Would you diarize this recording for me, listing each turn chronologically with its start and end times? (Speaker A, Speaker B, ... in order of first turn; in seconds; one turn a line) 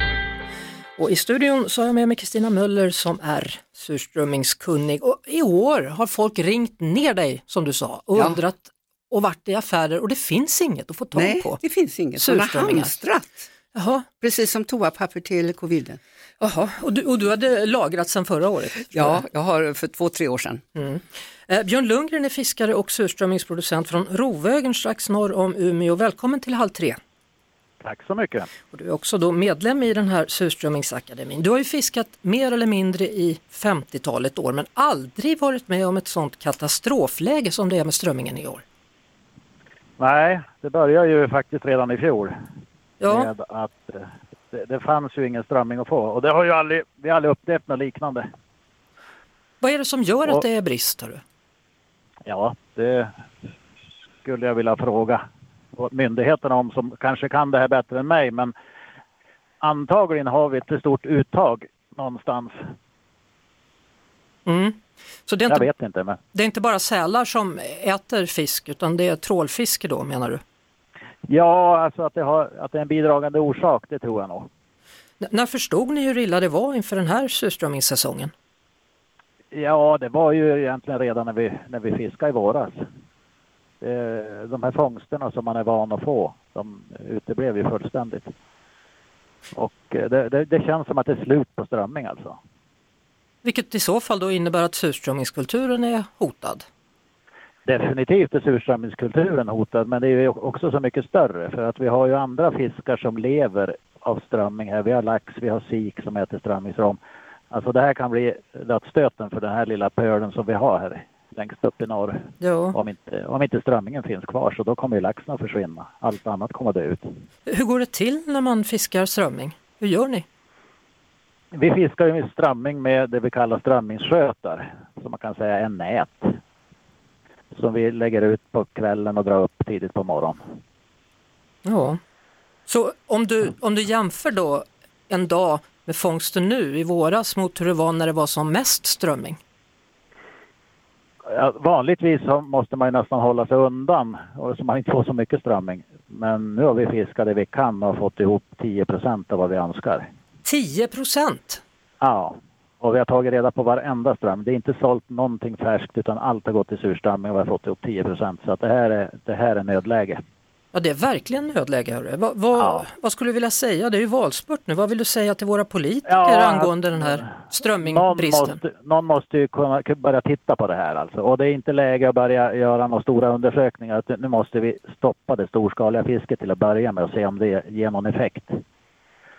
Speaker A: 1.0-11.6
Speaker B: 8.2-8.4
Speaker B: 11.1-13.5
Speaker A: 12.1-12.9
Speaker A: 13.7-14.1
Speaker B: 14.2-16.0
Speaker A: 16.4-19.2
Speaker B: 18.9-20.6
Speaker A: 20.7-27.0
Speaker C: 27.8-28.5
Speaker A: 28.7-38.6
Speaker C: 40.0-42.3
Speaker A: 43.0-43.3
Speaker C: 43.0-48.2
Speaker A: 49.6-51.2
Speaker C: 52.2-53.1
Speaker C: 54.2-55.2
Speaker C: 55.7-58.5
Speaker C: 59.6-62.5
Speaker A: 64.5-65.7
Speaker C: 65.5-66.2
Speaker A: 66.3-70.4
Speaker C: 71.3-74.5
Speaker A: 75.2-78.3
Speaker C: 79.5-82.7
Speaker C: 83.8-88.3
Speaker C: 89.5-92.4
Speaker A: 93.4-96.6
Speaker C: 97.7-107.0
Speaker C: 107.5-117.0
Speaker A: 112.4-112.8
Speaker A: 117.5-120.2
Speaker C: 121.5-126.4
Speaker C: 127.5-130.4
Speaker A: 131.6-132.0
Speaker A: 132.7-139.4
Speaker C: 141.3-150.1
Speaker A: 150.4-151.6
Speaker C: 152.0-160.2
Speaker A: 160.7-168.6
Speaker C: 162.5-162.9
Speaker C: 166.1-178.6